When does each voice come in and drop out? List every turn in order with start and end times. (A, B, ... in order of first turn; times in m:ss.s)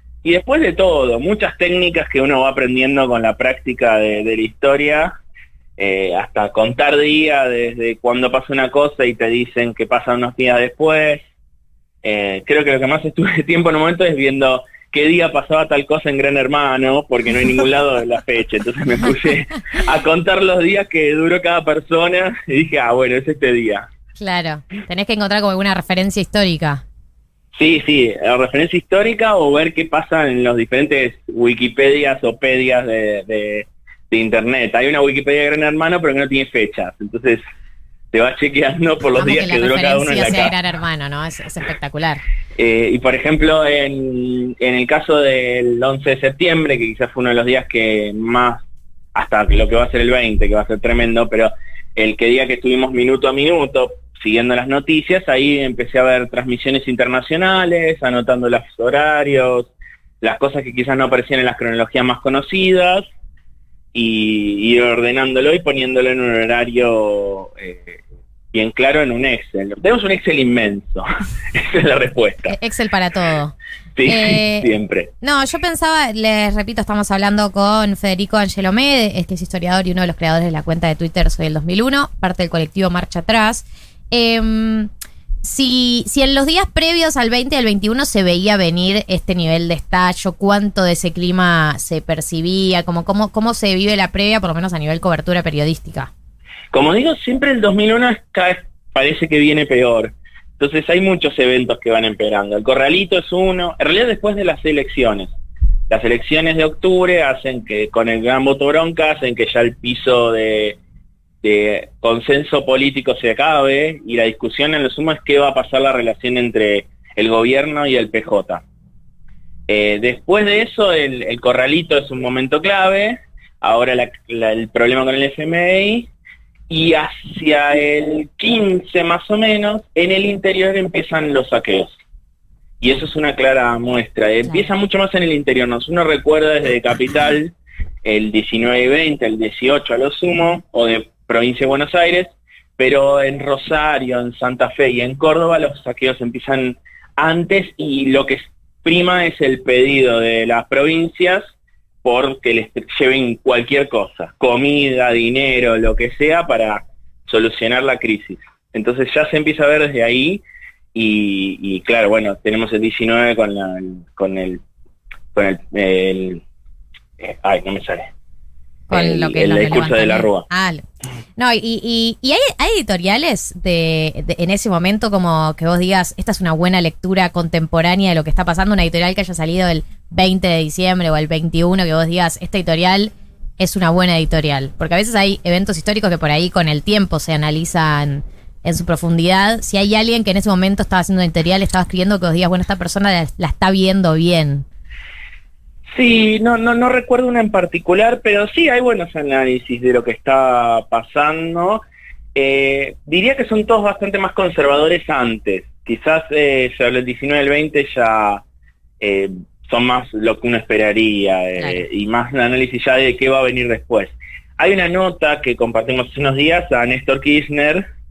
0:00.2-0:05.2 A
0:05.8-0:11.2 A
0:12.0-0:23.8 A
0:24.2-0:26.8 B
0:27.5-0:37.4 A
0:38.1-0:40.5 A
0:39.2-0:42.2 B
0:42.6-0:48.6 A
0:49.1-0:59.7 A
1:00.2-1:03.1 A
1:03.9-1:08.0 A
1:08.5-1:12.5 A
1:12.5-1:14.7 B
1:14.0-1:15.1 A
1:15.2-1:24.9 B
1:25.4-1:36.1 B
1:36.7-1:45.3 A
1:45.9-1:50.8 A
1:51.4-1:58.6 A
1:59.7-2:06.1 A
2:06.7-2:12.0 A
2:12.8-2:31.5 A
2:32.0-2:40.4 A
2:40.9-2:44.6 A
2:45.3-2:46.4 A
2:47.2-2:48.1 A
2:48.9-2:50.8 B
2:48.9-2:50.4 A
2:51.4-3:14.6 B
3:15.9-3:21.8 A
3:22.3-3:28.4 A
3:29.0-3:37.8 A
3:31.6-3:31.8 B